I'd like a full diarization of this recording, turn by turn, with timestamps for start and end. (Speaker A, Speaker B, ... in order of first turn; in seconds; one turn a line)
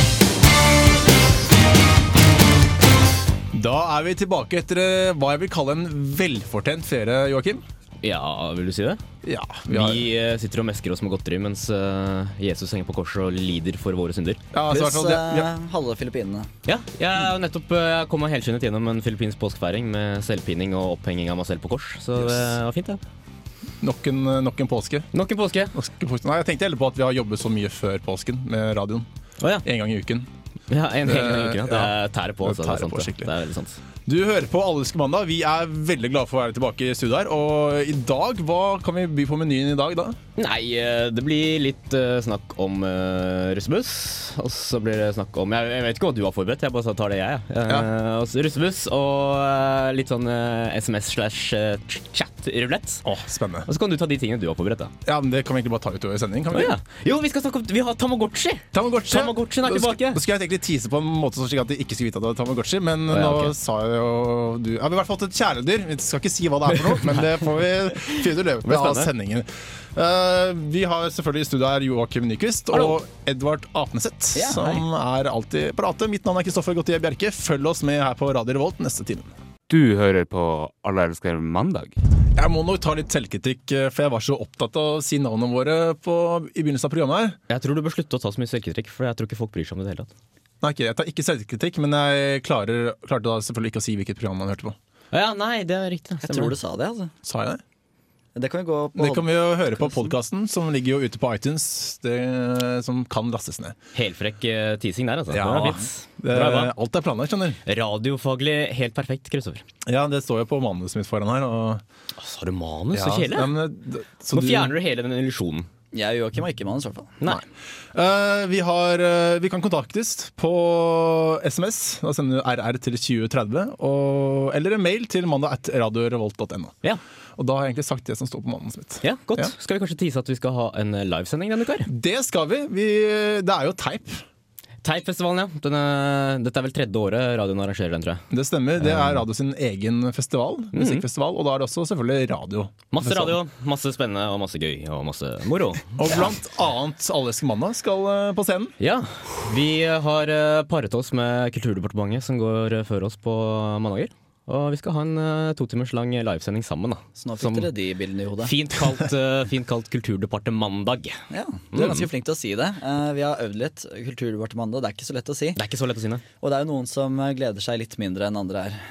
Speaker A: 3.5-7.6
Speaker B: 8.0-9.0
Speaker A: 9.2-10.1
Speaker B: 9.7-14.4
Speaker A: 14.5-15.5
Speaker C: 14.7-16.5
Speaker B: 16.6-23.0
Speaker A: 22.2-22.5
Speaker A: 23.8-25.1
Speaker B: 25.1-25.7
Speaker A: 25.7-29.1
Speaker B: 29.4-29.6
Speaker A: 29.6-30.3
Speaker B: 30.7-33.8
Speaker A: 31.0-33.3
Speaker A: 34.0-40.2
Speaker B: 40.4-53.0
Speaker A: 53.0-53.7
Speaker B: 53.6-54.9
Speaker A: 55.0-56.8
Speaker B: 56.5-60.2
Speaker A: 58.7-79.3
Speaker B: 63.1-63.5
Speaker B: 66.7-67.4
Speaker B: 68.0-69.1
Speaker B: 72.7-73.0
Speaker C: 74.3-74.8
Speaker D: 79.7-82.0
Speaker A: 82.3-87.4
Speaker B: 87.5-90.1
Speaker A: 90.6-94.8
Speaker B: 95.1-96.5
Speaker C: 96.2-97.1
Speaker A: 97.2-97.6
Speaker C: 98.3-100.0
Speaker A: 99.0-103.8
Speaker B: 103.9-106.7
Speaker A: 105.3-107.6
Speaker B: 107.7-109.6
Speaker A: 109.8-111.8
Speaker B: 112.2-113.5
Speaker A: 112.9-114.7
Speaker B: 114.3-115.7
Speaker C: 115.9-117.2
Speaker A: 117.9-126.7
Speaker A: 127.3-129.5
Speaker B: 129.0-131.9
Speaker A: 131.9-134.2
Speaker B: 134.8-138.2
Speaker A: 138.3-143.4
Speaker B: 138.8-139.2
Speaker B: 140.7-141.0
Speaker B: 142.9-146.3
Speaker A: 146.0-148.7
Speaker B: 148.8-157.7
Speaker C: 157.2-158.5
Speaker B: 158.4-161.2
Speaker C: 161.3-165.6
Speaker B: 161.7-162.1
Speaker B: 165.6-166.2
Speaker C: 166.4-168.8